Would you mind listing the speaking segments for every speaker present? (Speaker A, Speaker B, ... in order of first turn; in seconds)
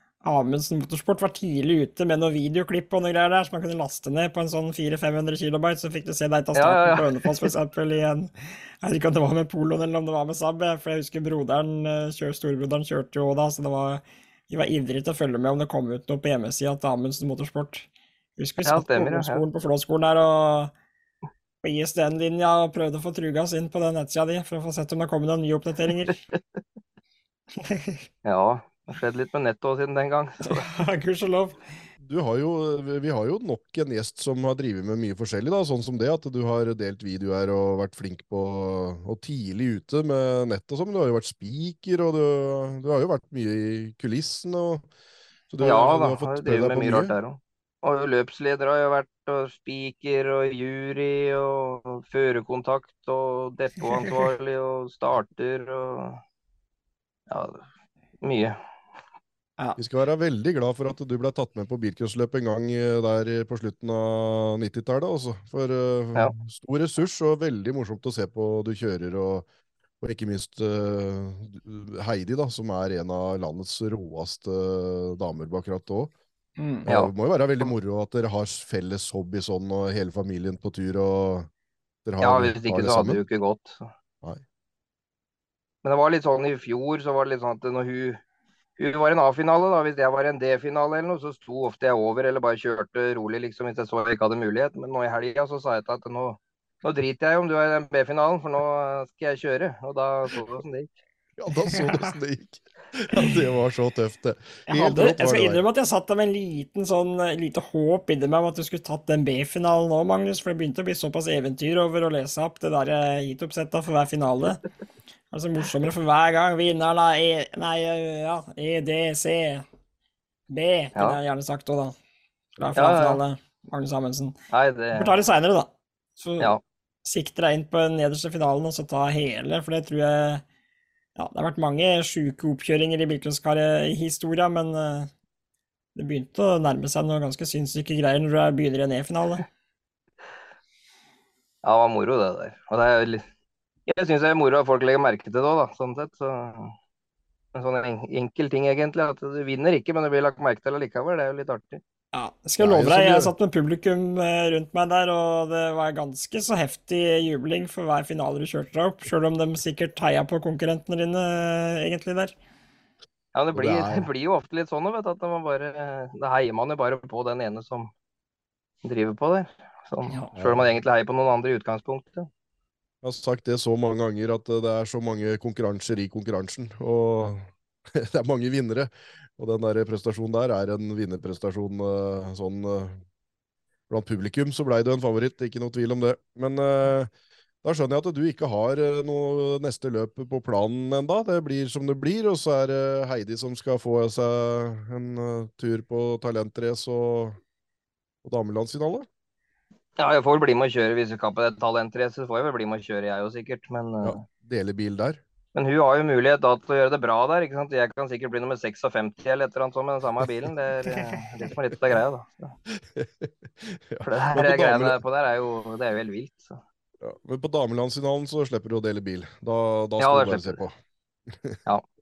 Speaker A: 0.2-8.3, 8.8-20.7, 21.6-26.2, 27.6-28.0, 30.4-31.6, 76.6-76.9, 101.7-102.1, 104.7-114.6, 115.3-119.7, 120.5-122.0, 122.6-124.4, 124.9-130.4, 131.2-135.1, 135.9-139.4, 152.1-162.3
Speaker B: 6.6-7.5, 18.6-19.4, 28.2-30.7, 45.6-56.2, 57.3-57.7, 58.2-58.6, 76.9-77.7, 82.2-83.9, 85.8-88.2, 88.8-101.0, 122.8-123.2, 124.5-125.2, 141.6-143.2, 143.9-146.8, 147.5-151.8, 163.3-167.9, 168.8-172.3, 200.0-204.2, 205.6-212.6, 214.0-216.6, 220.0-220.6
Speaker C: 32.0-44.9, 45.5-47.1, 59.8-69.5, 70.0-76.1, 76.8-81.5, 82.1-83.2, 101.4-105.6, 152.6-153.3, 163.6-164.1, 170.3-170.7, 173.0-183.0, 183.9-187.1, 187.6-197.4, 198.2-199.1, 204.0-205.2, 212.7-215.0, 217.0-220.8, 221.3-221.6